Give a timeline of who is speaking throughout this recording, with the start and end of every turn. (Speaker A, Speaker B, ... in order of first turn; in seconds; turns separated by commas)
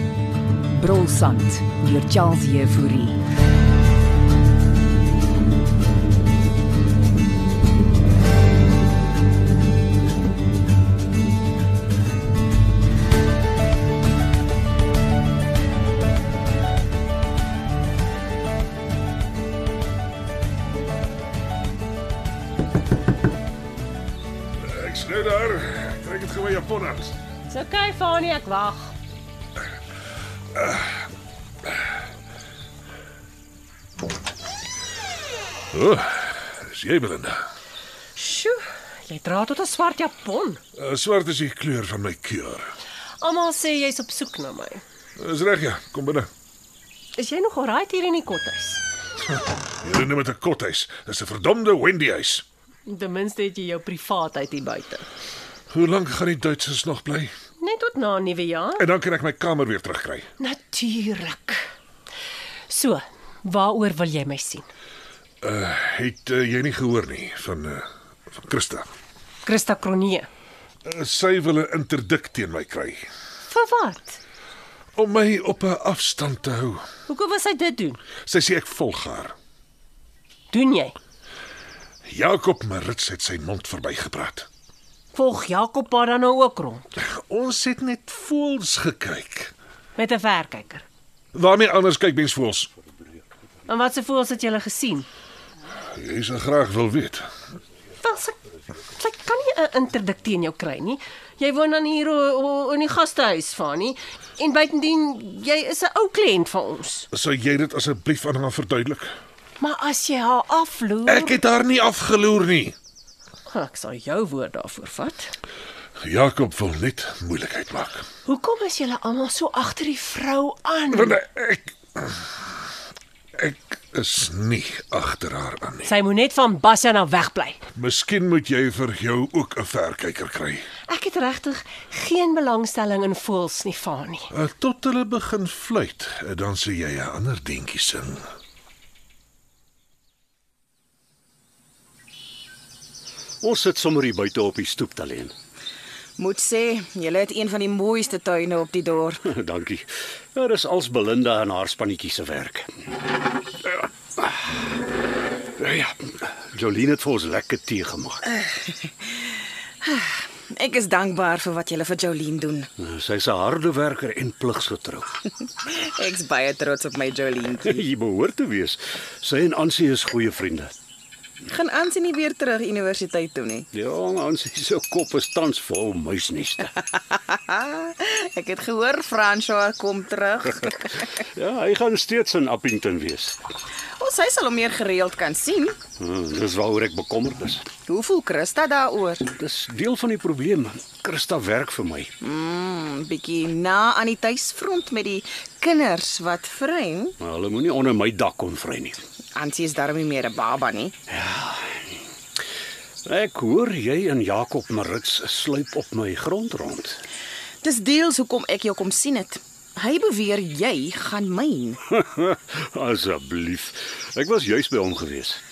Speaker A: 0.7-3.2, Speaker B: 24.6-27.2, Speaker C: 27.5-28.9, Speaker B: 30.6-31.0, Speaker B: 35.7-37.4, Speaker C: 38.1-40.6, Speaker B: 40.8-42.7, Speaker C: 43.2-44.8, Speaker B: 45.2-46.3, Speaker C: 47.1-48.8, Speaker B: 49.8-52.4, Speaker C: 52.9-55.0, Speaker B: 55.7-57.3, Speaker C: 57.6-58.9, Speaker B: 58.8-60.3, Speaker C: 60.4-61.6, Speaker C: 62.7-64.6, Speaker B: 65.4-67.8, Speaker B: 68.4-68.8, Speaker C: 69.4-70.3, Speaker B: 70.8-73.0, Speaker C: 73.5-74.2, Speaker B: 75.0-76.8, Speaker C: 77.1-78.0, Speaker B: 78.3-79.3, Speaker C: 80.5-80.9, Speaker B: 82.1-84.5, Speaker C: 85.1-86.9, Speaker B: 87.0-89.5, Speaker C: 90.0-90.8, Speaker B: 91.3-92.7, Speaker C: 93.7-95.1, Speaker B: 96.0-97.2, Speaker C: 98.0-107.1, Speaker B: 107.1-109.1, Speaker C: 109.6-111.4, Speaker B: 111.1-112.7, Speaker C: 113.5-115.3, Speaker B: 116.0-118.0, Speaker C: 118.2-121.2, Speaker B: 120.9-122.2, Speaker B: 123.4-125.9, Speaker C: 125.8-127.6, Speaker B: 127.7-130.7, Speaker C: 130.9-134.3, Speaker B: 134.3-138.2, Speaker D: 143.4-145.3, Speaker E: 146.2-149.2, Speaker D: 149.2-152.7, Speaker D: 153.7-154.4, Speaker D: 155.6-158.3, Speaker E: 158.3-162.7, Speaker D: 162.8-165.1, Speaker E: 165.6-167.8, Speaker D: 167.6-170.7, Speaker E: 171.4-173.7, Speaker D: 173.7-176.8, Speaker E: 176.9-181.1, Speaker D: 181.1-183.3, Speaker E: 184.0-185.8, Speaker D: 186.0-187.7, Speaker E: 187.9-189.3, Speaker D: 189.3-192.1, Speaker E: 192.2-197.2, Speaker D: 197.2-199.0, Speaker E: 199.3-200.9, Speaker D: 201.1-202.0, Speaker D: 203.0-207.0, Speaker E: 207.6-211.8, Speaker D: 211.9-215.4